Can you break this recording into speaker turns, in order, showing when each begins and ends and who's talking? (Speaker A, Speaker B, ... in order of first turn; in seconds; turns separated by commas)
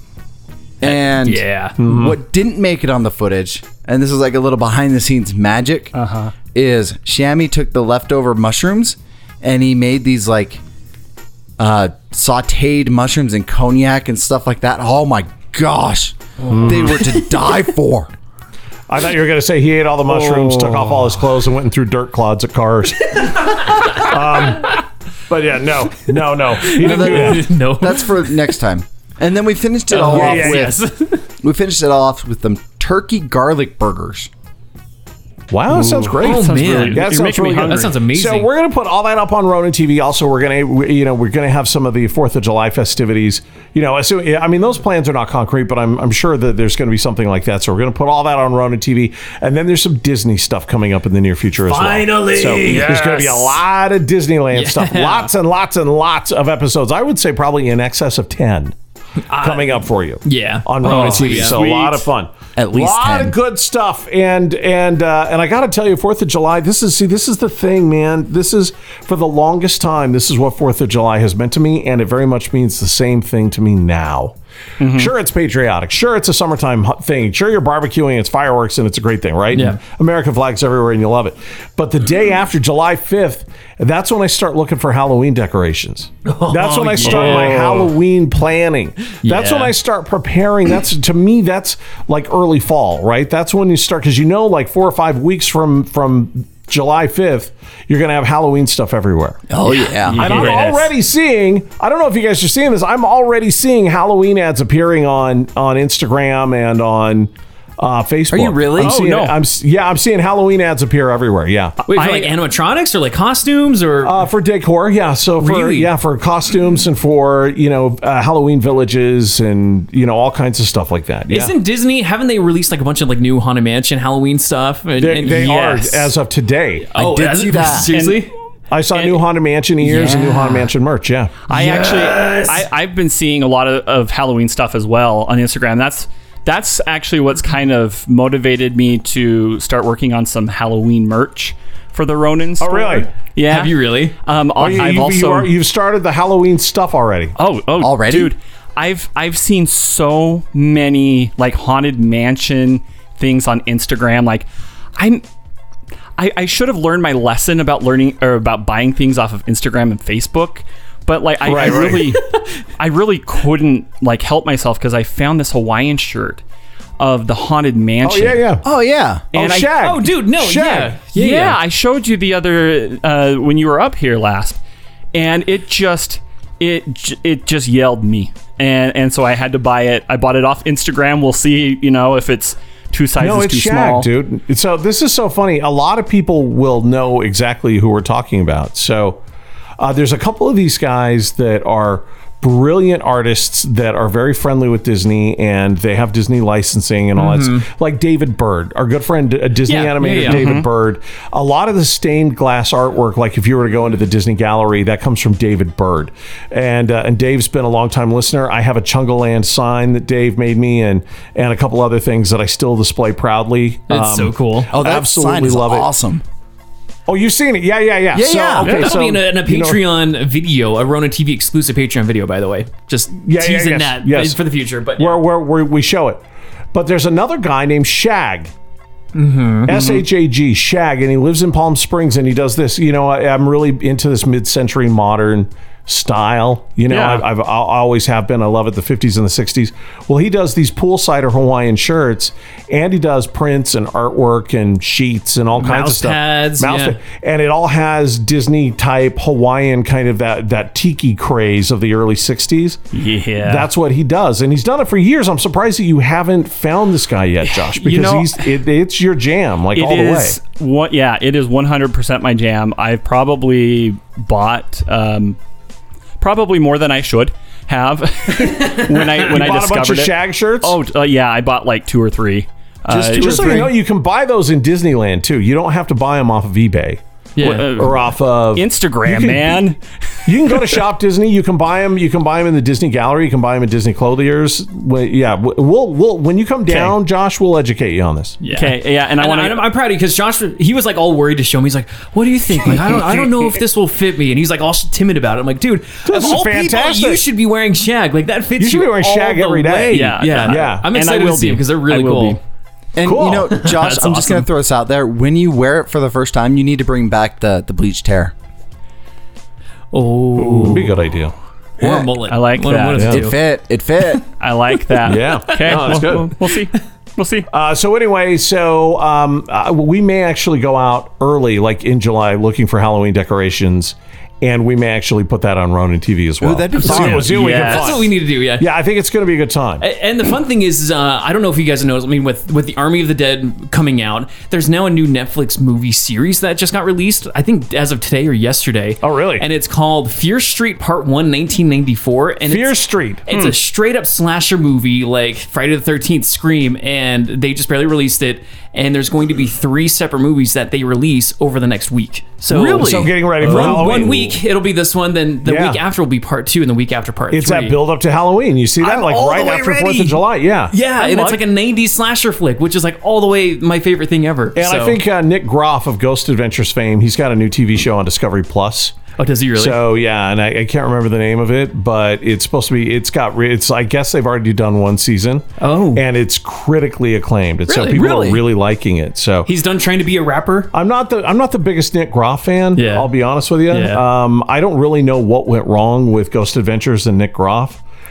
Speaker A: 0.8-5.9, Speaker B: 0.8-1.8, Speaker C: 1.8-2.2, Speaker D: 5.9-6.3, Speaker A: 6.5-10.6, Speaker A: 11.6-18.1, Speaker C: 16.5-17.1, Speaker C: 18.9-27.5, Speaker D: 20.4-20.8, Speaker B: 26.6-28.3, Speaker A: 26.8-30.8, Speaker B: 29.9-31.2, Speaker C: 29.9-30.8, Speaker A: 31.4-34.3, Speaker C: 35.5-58.8, Speaker D: 35.7-37.9, Speaker B: 36.0-38.5, Speaker B: 51.7-53.1, Speaker D: 52.7-53.5, Speaker B: 54.5-55.3, Speaker B: 59.3-62.0, Speaker C: 59.4-99.4, Speaker D: 60.8-61.9, Speaker A: 60.9-61.6, Speaker A: 62.6-63.4, Speaker D: 74.8-75.1, Speaker B: 79.5-79.8, Speaker B: 86.3-87.9, Speaker D: 87.0-87.7, Speaker B: 89.2-89.7, Speaker A: 99.5-100.5, Speaker D: 100.0-100.9, Speaker C: 100.2-111.8, Speaker B: 100.2-100.7, Speaker A: 108.3-109.0, Speaker D: 108.8-109.4, Speaker B: 111.9-114.3, Speaker D: 111.9-112.3, Speaker C: 114.0-121.5, Speaker B: 115.4-115.9, Speaker B: 121.3-126.1, Speaker C: 125.0-126.9, Speaker B: 126.9-128.3, Speaker A: 127.0-127.9, Speaker D: 127.9-128.3, Speaker C: 128.7-131.4, Speaker B: 129.9-130.7, Speaker D: 129.9-130.4, Speaker D: 131.5-145.5, Speaker B: 131.5-132.6, Speaker C: 142.6-143.1, Speaker B: 143.5-144.2, Speaker C: 144.6-147.3, Speaker D: 147.4-155.2, Speaker A: 147.8-148.3, Speaker D: 156.2-162.2, Speaker C: 161.4-162.2, Speaker B: 161.5-162.3, Speaker D: 162.8-166.4, Speaker D: 167.0-168.5, Speaker C: 168.0-168.7, Speaker A: 168.6-169.3, Speaker C: 169.3-171.0, Speaker D: 169.3-169.7, Speaker B: 169.6-171.6, Speaker D: 171.1-174.6, Speaker D: 175.1-184.1, Speaker C: 183.2-189.2, Speaker C: 189.8-215.9, Speaker B: 197.2-197.7, Speaker B: 199.7-200.6, Speaker D: 200.2-200.7, Speaker B: 213.9-214.7, Speaker A: 214.7-216.2, Speaker C: 217.1-219.8, Speaker A: 218.1-218.9, Speaker B: 218.6-225.2, Speaker C: 223.2-224.4, Speaker C: 225.0-228.5, Speaker B: 229.1-229.8, Speaker C: 229.7-252.8, Speaker D: 229.7-230.0, Speaker D: 236.9-237.2, Speaker B: 245.6-247.0, Speaker D: 252.9-253.7, Speaker C: 253.4-260.4, Speaker D: 257.4-258.5, Speaker D: 259.7-265.4, Speaker D: 266.2-273.7, Speaker C: 269.1-270.8, Speaker A: 272.9-273.7, Speaker C: 273.0-279.7, Speaker B: 277.4-277.8, Speaker D: 277.4-280.6, Speaker C: 280.3-288.4, Speaker D: 286.7-287.0, Speaker B: 288.4-302.4, Speaker D: 288.5-289.6, Speaker D: 292.7-293.6, Speaker C: 296.1-297.2, Speaker C: 298.6-300.9, Speaker D: 299.9-302.4, Speaker A: 302.9-308.3, Speaker C: 303.0-303.5, Speaker B: 303.4-304.5, Speaker B: 309.9-311.0, Speaker C: 310.5-311.3, Speaker B: 311.8-313.4, Speaker A: 311.8-312.1, Speaker D: 312.3-313.2, Speaker C: 313.0-313.2, Speaker A: 313.1-314.2, Speaker D: 314.4-317.5, Speaker C: 315.0-316.4, Speaker B: 315.7-316.0, Speaker C: 317.5-329.8, Speaker A: 326.4-327.4, Speaker B: 326.8-328.7, Speaker D: 326.9-328.0, Speaker B: 329.8-357.8, Speaker C: 339.0-339.4, Speaker C: 342.5-343.3, Speaker D: 343.3-343.6, Speaker C: 352.5-354.4, Speaker D: 353.4-353.8, Speaker C: 355.4-355.8, Speaker C: 357.3-361.4, Speaker B: 358.8-365.0, Speaker C: 364.6-369.0, Speaker B: 369.2-369.8, Speaker C: 369.6-379.5, Speaker B: 375.6-376.1, Speaker B: 377.7-378.4, Speaker B: 379.4-380.7, Speaker C: 380.7-387.8, Speaker B: 382.8-383.1, Speaker B: 383.7-384.0